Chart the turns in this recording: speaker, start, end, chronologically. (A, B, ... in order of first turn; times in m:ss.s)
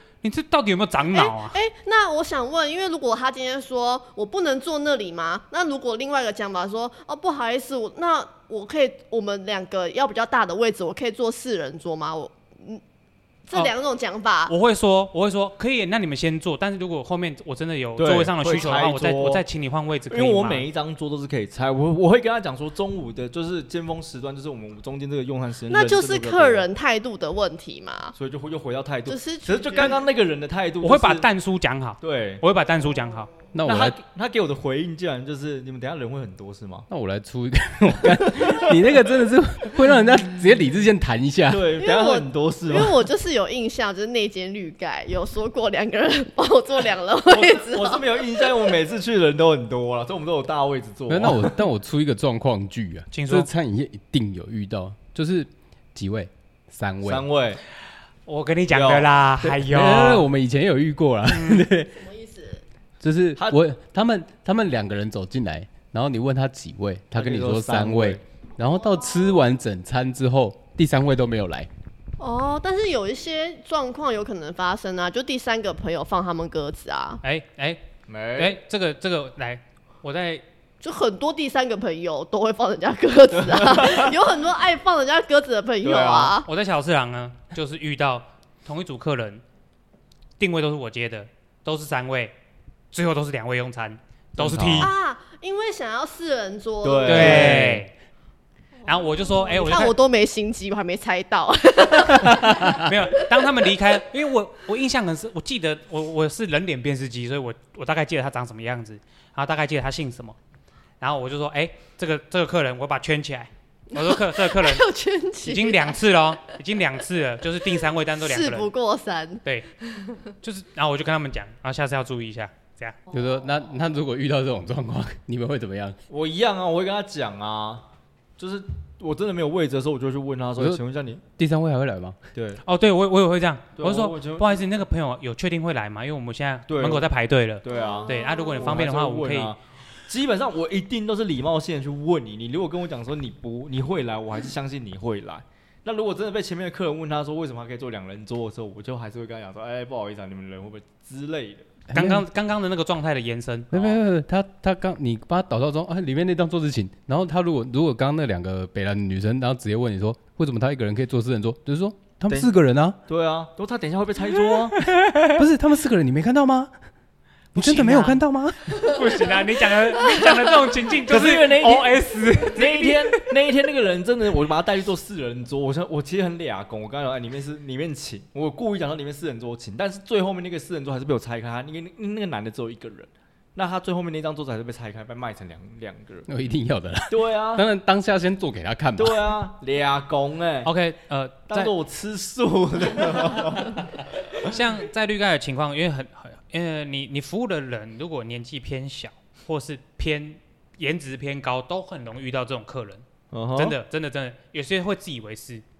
0:00.2-0:01.6 A
0:01.1-0:12.8 B
0:13.5-0:14.5 B
0:14.5-0:20.6 A
0:18.0-0:19.4 C
0:20.1-0:26.7 C
0:25.7-0:28.2 B
0:28.1-0:31.3 C
0:29.1-0:30.0 B
0:30.8-0:33.3 A
0:32.0-0:32.4 C
0:33.5-0:34.0 D
0:33.6-0:36.9 C
0:36.9-0:41.7 D
0:41.5-0:43.0 C
0:41.8-0:48.7 B
0:47.3-0:51.6 C
0:51.1-0:57.2 D
0:53.1-0:53.5 A
0:57.0-0:57.6 C
0:58.2-1:00.3 A
0:58.7-0:59.5 C
0:59.6-1:02.0 D
1:01.3-1:01.7 A
1:01.9-1:02.6 B
1:03.0-1:11.7 D
1:07.1-1:08.2 C
1:08.6-1:09.4 B
1:12.2-1:17.2 B
1:17.2-1:17.8 A
1:18.1-1:18.6 C
1:18.3-1:20.4 A
1:20.8-1:26.5 B
1:23.3-1:24.2 C
1:25.8-1:26.4 C
1:26.4-1:29.4 A
1:30.4-1:32.3 A
1:32.9-1:34.9 A
1:34.4-1:34.9 C
1:34.8-1:37.5 B
1:36.8-1:37.8 C
1:37.1-1:37.9 A
1:37.3-1:37.8 D
1:38.8-1:43.4 B
1:38.8-1:39.9 A
1:42.5-1:50.4 A
1:51.0-1:54.9 A
1:54.0-1:56.5 B
1:55.4-1:58.7 A
1:57.8-2:00.3 B
2:00.4-2:03.0 A
2:03.1-2:03.4 B
2:03.1-2:06.0 D
2:06.1-2:07.8 C
2:08.4-2:11.2 C
2:11.4-2:12.2 D
2:12.3-2:12.6 C
2:12.6-2:19.5 A
2:13.8-2:14.6 C
2:16.7-2:17.1 C
2:17.6-2:31.7 C
2:17.7-2:18.7 B
2:31.9-2:32.2 D
2:31.9-2:34.0 A
2:33.7-2:43.0 D
2:43.1-2:44.8 C
2:44.7-2:45.4 A
2:45.2-2:46.7 D
2:47.5-2:49.0 D
2:47.5-2:53.3 A
2:51.0-3:06.3 C
3:06.3-3:09.2 D
3:07.1-3:07.7 C
3:09.0-3:10.7 C
3:10.6-3:11.7 A
3:11.5-3:14.5 C
3:14.4-3:25.6 A
3:23.3-3:23.8 C